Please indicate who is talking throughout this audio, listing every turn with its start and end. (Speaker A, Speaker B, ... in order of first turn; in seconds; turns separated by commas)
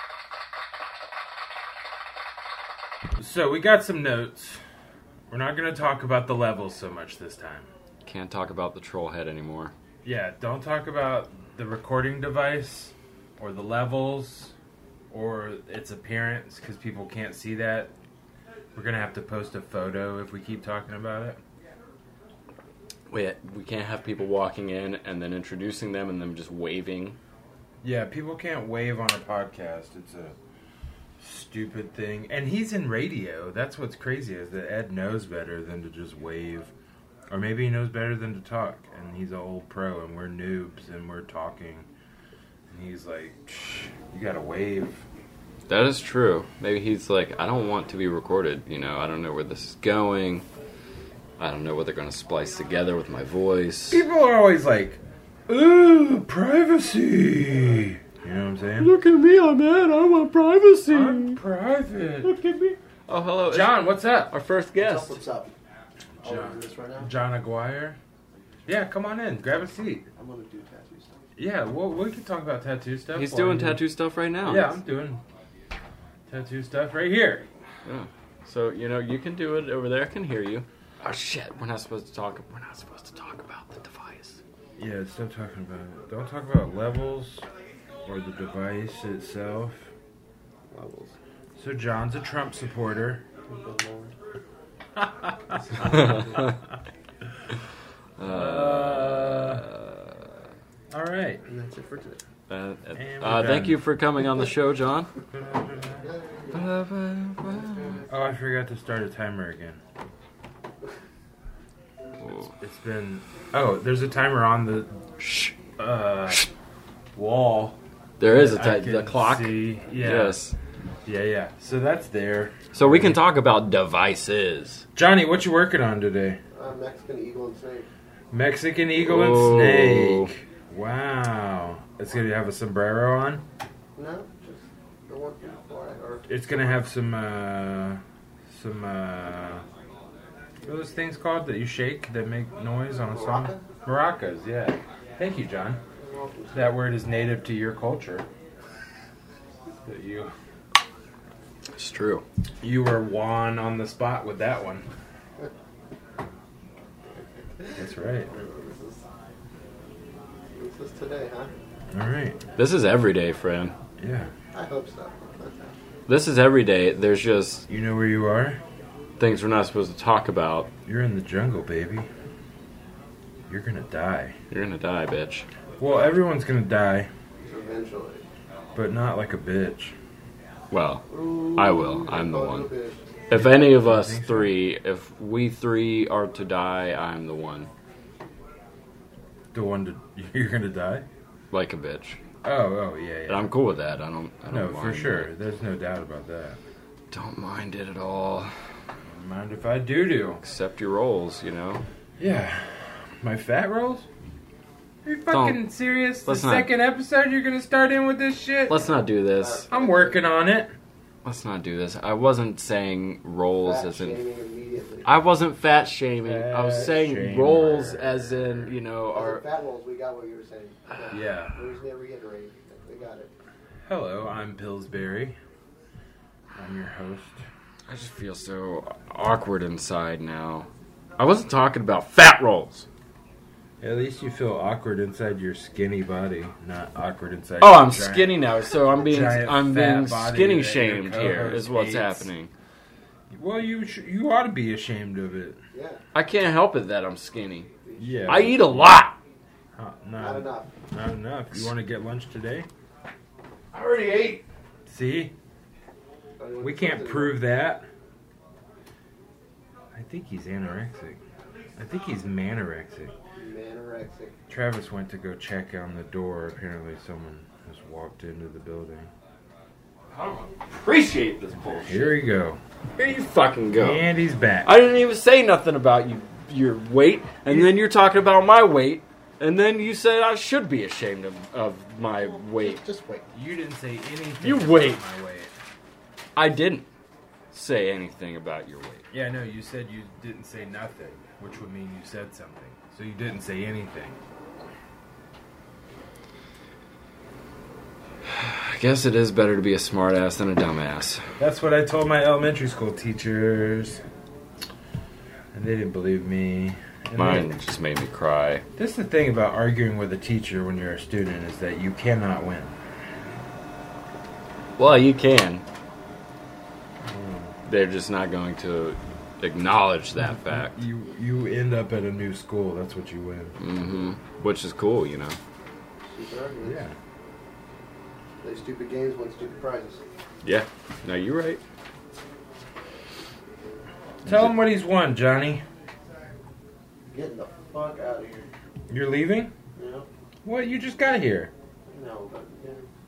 Speaker A: 3.2-4.6, Speaker A: 5.3-7.7, Speaker B: 8.0-9.7, Speaker A: 10.0-14.5, Speaker A: 15.1-17.9, Speaker A: 18.7-21.4, Speaker B: 23.1-27.2, Speaker A: 27.8-30.4, Speaker A: 31.2-36.7, Speaker A: 37.3-41.9, Speaker A: 42.7-45.0, Speaker B: 45.7-50.4, Speaker B: 51.4-54.0, Speaker A: 53.9-58.9, Speaker B: 58.8-61.4, Speaker A: 60.9-62.3, Speaker B: 62.2-65.2, Speaker A: 63.5-64.3, Speaker C: 64.8-65.5, Speaker C: 66.2-67.1, Speaker A: 66.2-68.0, Speaker A: 68.7-70.1, Speaker C: 70.2-71.2, Speaker A: 71.4-73.8, Speaker B: 73.1-74.8, Speaker A: 74.4-75.2, Speaker A: 76.3-77.5, Speaker B: 77.8-84.4, Speaker A: 84.8-87.5, Speaker A: 88.0-89.9, Speaker C: 90.7-91.1, Speaker A: 91.6-93.2, Speaker C: 93.5-94.2, Speaker A: 95.0-96.2, Speaker C: 95.7-96.3, Speaker B: 95.9-96.5, Speaker B: 98.2-100.1, Speaker A: 98.2-99.6, Speaker A: 100.9-101.4, Speaker C: 101.5-102.2, Speaker B: 102.5-105.1, Speaker A: 102.9-103.8, Speaker A: 105.3-106.0, Speaker C: 106.0-106.8, Speaker B: 106.5-108.0, Speaker C: 107.4-108.1, Speaker A: 108.1-109.8, Speaker B: 112.2-112.5, Speaker A: 112.5-115.0, Speaker B: 115.2-115.5, Speaker A: 115.8-116.5, Speaker A: 117.1-120.4, Speaker B: 118.2-120.5, Speaker A: 121.0-123.2, Speaker B: 122.7-124.8, Speaker A: 124.9-126.4, Speaker C: 126.5-127.9, Speaker A: 128.3-133.4, Speaker B: 128.9-130.3, Speaker C: 133.9-136.7, Speaker A: 136.3-139.6, Speaker A: 140.6-145.8, Speaker C: 143.1-143.6, Speaker C: 146.0-146.7, Speaker A: 146.5-148.2, Speaker A: 149.8-150.3, Speaker B: 151.7-152.2, Speaker A: 152.6-154.8, Speaker C: 157.1-159.0, Speaker A: 157.8-158.3, Speaker C: 160.5-161.5, Speaker A: 161.9-162.4, Speaker B: 162.6-163.8, Speaker A: 164.0-164.3, Speaker C: 164.5-165.8, Speaker B: 166.1-167.6, Speaker A: 167.7-168.6, Speaker B: 169.2-170.7, Speaker A: 170.8-172.1, Speaker A: 173.5-174.4, Speaker B: 174.5-175.5, Speaker A: 175.8-177.1, Speaker C: 177.4-178.2, Speaker A: 178.7-179.9, Speaker B: 180.7-182.7, Speaker C: 181.1-183.1, Speaker B: 183.3-187.7, Speaker A: 183.3-184.5, Speaker A: 189.5-191.1, Speaker B: 191.5-192.2, Speaker A: 192.4-193.5, Speaker B: 193.3-195.3, Speaker A: 194.5-196.6, Speaker B: 197.1-198.5, Speaker A: 199.0-200.4, Speaker B: 200.4-201.8, Speaker A: 202.2-204.1, Speaker A: 205.0-209.0, Speaker B: 205.3-205.6, Speaker B: 206.2-206.7, Speaker B: 208.7-209.7, Speaker C: 209.3-210.3, Speaker A: 209.7-210.7, Speaker B: 211.2-214.2, Speaker C: 213.6-215.2, Speaker B: 215.0-219.4, Speaker A: 216.2-218.7, Speaker C: 219.1-223.3, Speaker A: 221.1-221.6, Speaker A: 223.8-225.4, Speaker A: 226.5-227.4, Speaker B: 227.9-232.8, Speaker A: 233.8-238.4, Speaker B: 237.6-242.5, Speaker A: 239.0-242.3, Speaker A: 243.3-245.6, Speaker C: 245.7-246.0, Speaker B: 246.1-247.7, Speaker C: 247.8-248.6, Speaker A: 248.0-248.9, Speaker B: 248.3-249.2, Speaker A: 249.8-252.7, Speaker C: 250.2-250.7, Speaker B: 253.7-254.4, Speaker A: 254.8-255.3, Speaker C: 256.4-257.4, Speaker A: 256.6-257.9, Speaker A: 259.9-261.2, Speaker A: 261.8-263.1, Speaker C: 263.4-264.4, Speaker A: 264.5-269.1, Speaker B: 270.1-272.1, Speaker A: 271.8-272.6, Speaker B: 273.0-274.0, Speaker A: 273.8-274.7, Speaker B: 274.6-282.8, Speaker A: 277.5-277.7, Speaker C: 282.1-283.3, Speaker A: 283.3-285.5, Speaker B: 284.4-285.0, Speaker B: 286.4-286.9, Speaker B: 287.5-289.1, Speaker A: 289.1-294.2, Speaker B: 298.3-301.2, Speaker A: 301.4-304.0, Speaker A: 305.5-307.5, Speaker B: 307.2-308.6, Speaker A: 308.8-312.8, Speaker B: 314.8-315.6, Speaker A: 317.0-317.5, Speaker B: 317.6-320.8, Speaker A: 320.2-323.6, Speaker B: 323.6-325.4, Speaker C: 326.1-326.8, Speaker A: 326.6-326.9, Speaker C: 328.4-330.0, Speaker B: 330.4-331.6, Speaker A: 334.2-335.6, Speaker C: 337.1-338.5, Speaker A: 338.9-339.5, Speaker C: 339.8-340.1, Speaker A: 340.4-341.5, Speaker C: 341.9-342.9